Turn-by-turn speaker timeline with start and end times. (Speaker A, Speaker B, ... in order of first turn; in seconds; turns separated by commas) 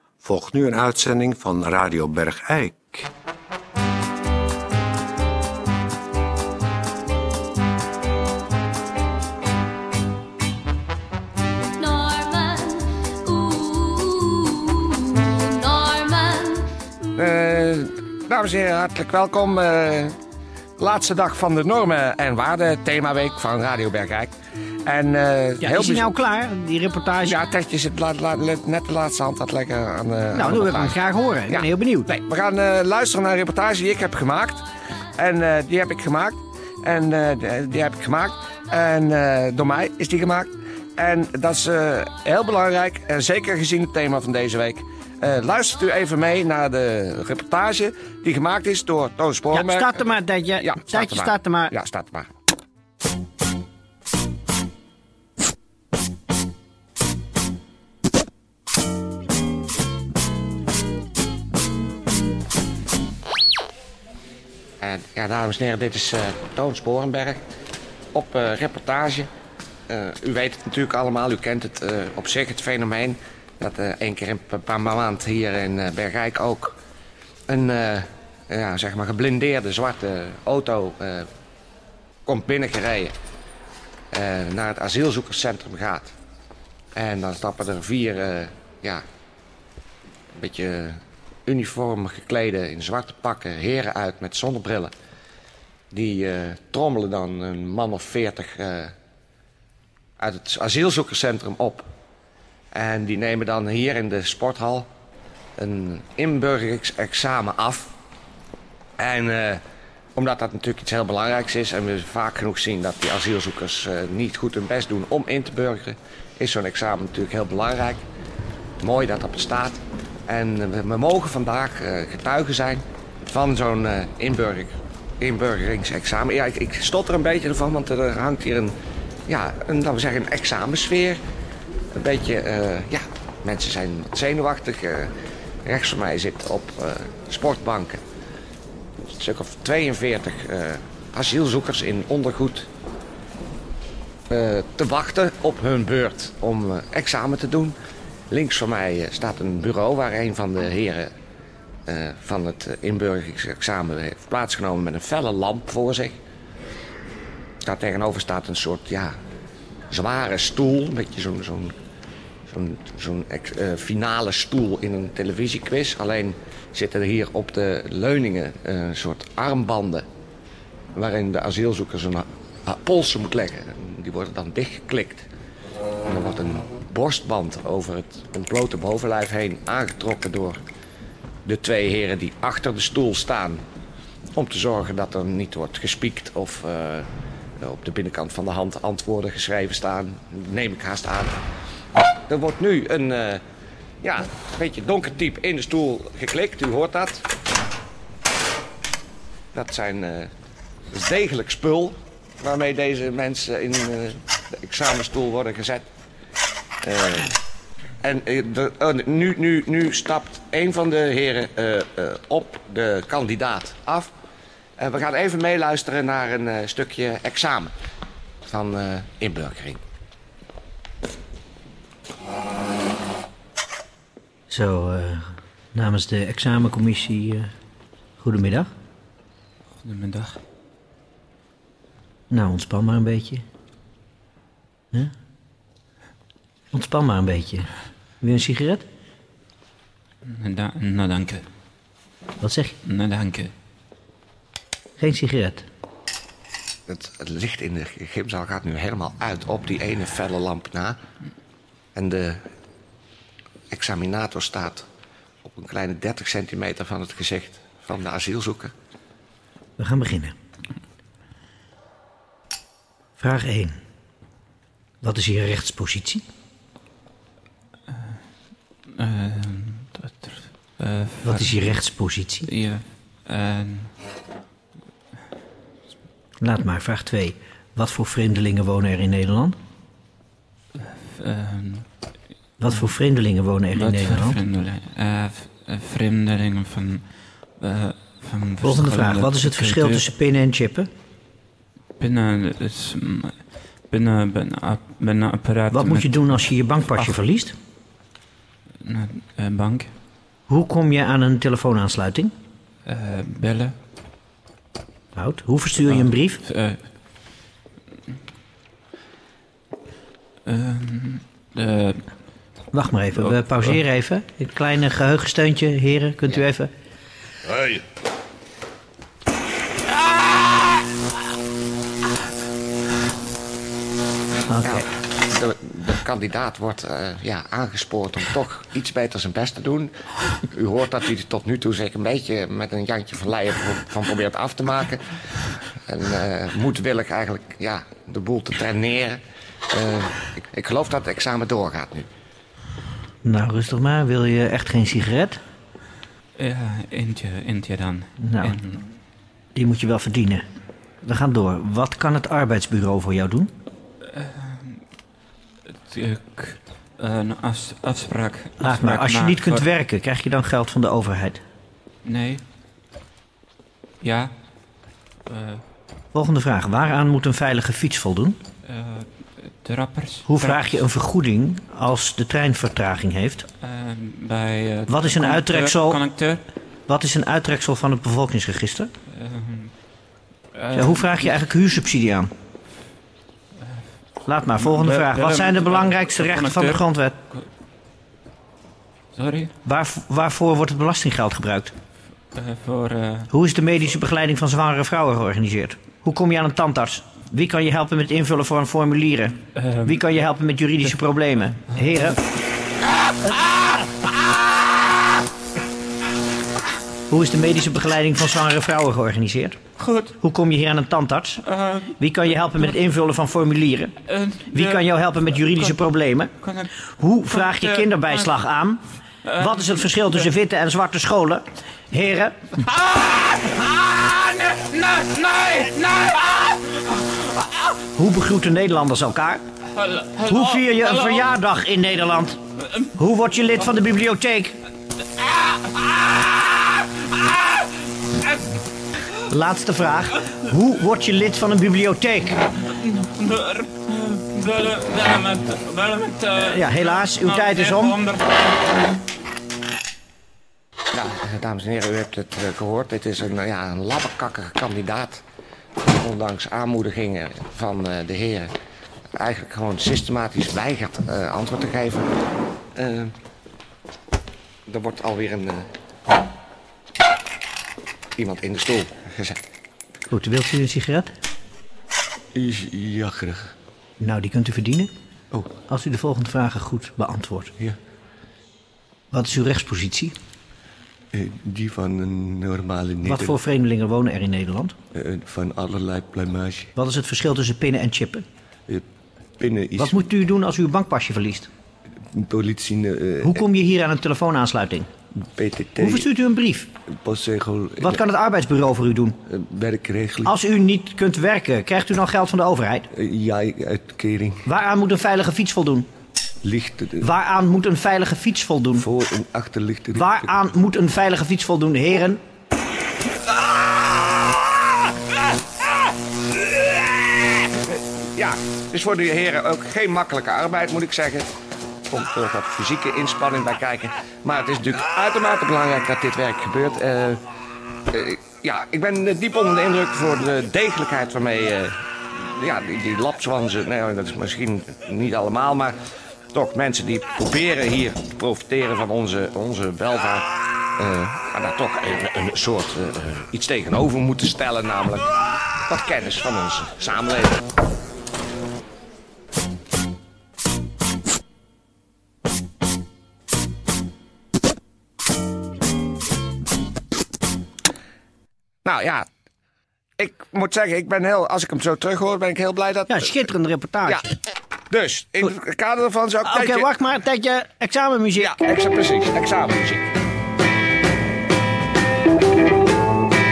Speaker A: 0.2-3.1, Speaker B: 11.8-16.8, Speaker C: 17.2-20.2, Speaker C: 20.8-24.3, Speaker C: 24.9-26.1, Speaker D: 25.6-27.4, Speaker C: 27.2-31.0, Speaker D: 30.3-32.1, Speaker C: 31.5-50.0, Speaker D: 49.5-51.7, Speaker C: 50.6-52.3, Speaker C: 64.8-67.4, Speaker C: 68.1-69.3, Speaker C: 69.9-76.8, Speaker C: 77.5-81.3, Speaker C: 82.3-83.1, Speaker C: 84.1-86.1, Speaker C: 87.0-89.0, Speaker C: 90.3-94.9, Speaker C: 95.9-98.9, Speaker C: 100.2-101.9, Speaker C: 102.7-104.9, Speaker C: 105.6-107.9, Speaker C: 109.0-109.6, Speaker C: 110.2-118.0, Speaker C: 118.8-128.8, Speaker C: 129.3-131.2, Speaker C: 131.9-135.1, Speaker C: 135.7-138.0, Speaker C: 139.0-142.7, Speaker C: 144.3-147.8, Speaker C: 148.3-151.1, Speaker C: 151.9-156.2, Speaker C: 157.6-159.2, Speaker C: 159.9-161.8, Speaker C: 162.5-170.1, Speaker C: 170.9-175.3, Speaker C: 176.1-180.6, Speaker C: 181.4-183.6, Speaker C: 184.3-187.1, Speaker C: 187.6-191.4, Speaker C: 192.3-193.4, Speaker C: 194.0-197.3, Speaker C: 199.5-200.3, Speaker C: 200.9-205.9, Speaker C: 206.8-207.4, Speaker C: 208.0-214.1, Speaker C: 214.8-217.7, Speaker C: 218.5-219.8, Speaker D: 224.5-227.5, Speaker D: 228.2-228.7, Speaker E: 229.8-230.4, Speaker D: 232.3-233.4, Speaker D: 236.7-238.8, Speaker E: 240.2-241.5, Speaker D: 242.4-242.8, Speaker E: 242.8-243.5, Speaker D: 245.0-245.6, Speaker C: 246.9-251.0, Speaker C: 251.9-252.4, Speaker C: 253.7-254.9, Speaker C: 255.4-258.7, Speaker D: 259.8-260.4, Speaker D: 263.2-263.8, Speaker D: 265.0-266.2, Speaker E: 269.0-271.8, Speaker D: 271.2-272.5, Speaker E: 272.5-273.9, Speaker D: 276.4-279.6, Speaker E: 280.9-282.1, Speaker D: 282.6-284.4, Speaker E: 283.7-290.1, Speaker D: 288.6-290.9, Speaker E: 292.0-297.2, Speaker D: 295.7-297.6, Speaker E: 298.8-299.9, Speaker D: 300.5-302.3, Speaker E: 302.9-303.8, Speaker D: 305.1-306.4, Speaker E: 305.9-306.9, Speaker E: 310.5-312.1, Speaker D: 312.7-316.7, Speaker E: 313.2-313.8, Speaker D: 324.5-324.9, Speaker C: 324.6-335.2, Speaker C: 335.9-339.2, Speaker C: 339.7-342.1, Speaker D: 343.2-345.4, Speaker E: 346.4-348.9, Speaker D: 348.2-348.6, Speaker D: 349.6-350.4, Speaker D: 351.0-353.5, Speaker E: 354.1-354.8, Speaker E: 355.9-359.7, Speaker D: 358.6-361.4, Speaker E: 362.1-362.4, Speaker E: 364.0-364.3, Speaker E: 365.3-365.6, Speaker D: 366.1-368.4, Speaker E: 368.6-370.8, Speaker D: 370.3-373.5, Speaker E: 373.6-376.4, Speaker D: 374.9-376.0, Speaker D: 376.9-378.9, Speaker E: 379.1-379.7, Speaker E: 380.5-381.3, Speaker D: 380.7-382.3, Speaker D: 384.3-387.2, Speaker E: 384.6-387.4, Speaker E: 389.1-389.5, Speaker D: 389.6-391.7, Speaker E: 392.3-393.3, Speaker D: 393.3-402.2, Speaker E: 399.6-400.0, Speaker E: 401.8-402.0, Speaker D: 407.1-409.6, Speaker E: 409.8-410.2, Speaker D: 410.2-413.9, Speaker E: 411.4-411.9, Speaker E: 414.1-415.9, Speaker D: 414.5-416.3, Speaker E: 416.4-418.3, Speaker D: 417.0-418.8, Speaker E: 419.3-419.9, Speaker D: 419.4-422.4, Speaker E: 422.7-426.9, Speaker D: 427.9-429.4, Speaker E: 429.8-431.2, Speaker D: 430.2-432.4, Speaker D: 433.0-434.6, Speaker D: 439.3-442.4, Speaker E: 442.8-448.5, Speaker D: 446.4-448.0, Speaker C: 450.9-455.2, Speaker C: 455.9-458.5, Speaker C: 459.2-462.1, Speaker C: 462.8-463.1, Speaker C: 464.7-465.7, Speaker C: 468.2-469.4, Speaker D: 470.1-471.1, Speaker C: 472.4-473.5, Speaker D: 474.0-474.9, Speaker D: 475.7-477.5, Speaker D: 479.1-480.1, Speaker C: 481.1-483.4, Speaker D: 483.0-484.8, Speaker C: 484.9-486.7, Speaker D: 486.8-488.2, Speaker C: 489.4-490.0, Speaker D: 489.8-491.5, Speaker C: 492.1-493.4, Speaker D: 493.2-494.9, Speaker C: 495.2-496.1, Speaker D: 495.8-496.7, Speaker C: 496.9-498.0, Speaker D: 497.8-499.2, Speaker C: 499.3-500.3, Speaker D: 500.2-502.9, Speaker C: 502.9-504.5, Speaker D: 504.4-505.9, Speaker C: 506.4-507.1, Speaker D: 507.0-508.9, Speaker C: 508.8-510.3, Speaker D: 509.9-512.2, Speaker C: 518.1-521.3, Speaker C: 521.9-527.2, Speaker C: 527.9-535.8, Speaker C: 536.3-540.3, Speaker C: 540.8-545.1, Speaker C: 545.7-547.4, Speaker C: 558.6-559.1, Speaker C: 560.0-563.2, Speaker D: 562.9-564.0, Speaker C: 564.7-566.7, Speaker D: 566.2-568.4, Speaker C: 568.2-569.9